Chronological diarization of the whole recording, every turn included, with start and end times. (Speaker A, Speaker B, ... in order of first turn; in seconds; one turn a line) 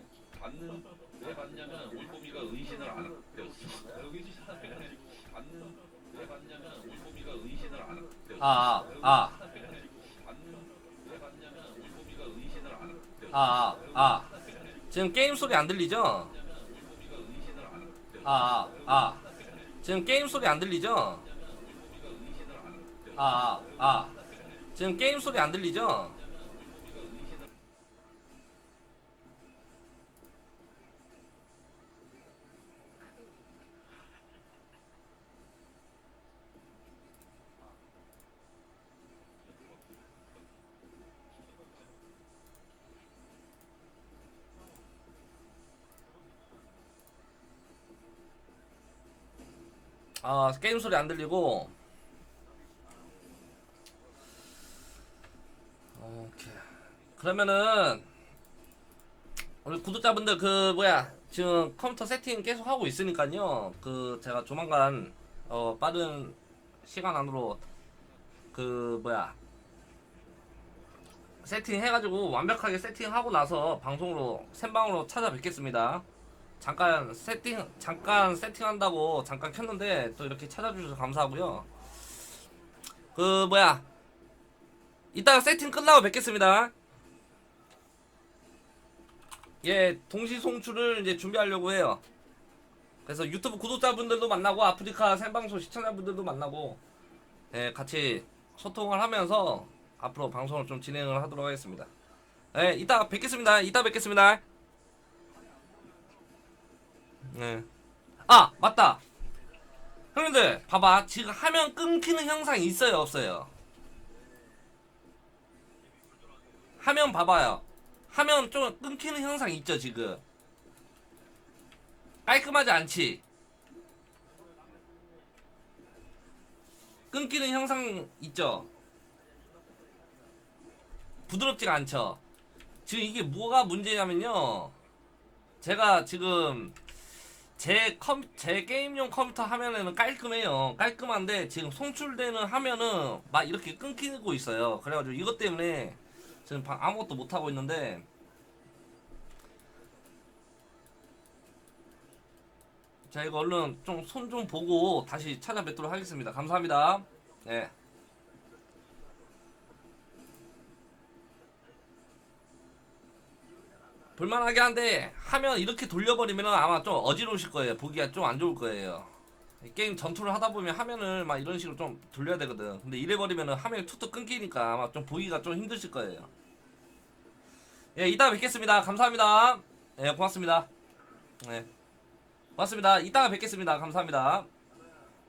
Speaker A: 1.2-4.2
Speaker A: 6.3-8.0
Speaker B: 8.4-9.4
Speaker A: 11.6-12.9
Speaker B: 13.3-14.3
Speaker B: 14.9-16.4
Speaker A: 17.1-17.4
Speaker B: 18.2-19.2
Speaker B: 19.8-21.3
Speaker B: 23.1-24.1
Speaker B: 24.7-26.2
Speaker B: 50.2-51.7
Speaker B: 56.0-58.0
Speaker B: 59.6-67.6
Speaker B: 68.5-69.3
Speaker B: 71.4-76.0
Speaker B: 76.6-81.7
Speaker B: 83.1-83.8
Speaker B: 85.1-86.7
Speaker B: 89.6-92.0
Speaker B: 93.0-96.8
Speaker B: 97.5-101.9
Speaker B: 102.5-104.4
Speaker A: 105.5-106.0
Speaker B: 107.3-107.7
Speaker B: 108.2-109.0
Speaker B: 110.1-113.5
Speaker B: 116.8-120.2
Speaker B: 122.2-123.2
Speaker B: 127.1-128.7
Speaker A: 129.5-129.9
Speaker B: 131.3-132.2
Speaker B: 132.8-134.7
Speaker B: 135.6-136.8
Speaker B: 137.6-148.0
Speaker B: 153.1-157.7
Speaker B: 164.2-176.3
Speaker B: 177.9-180.7
Speaker B: 181.4-181.7
Speaker B: 182.6-184.5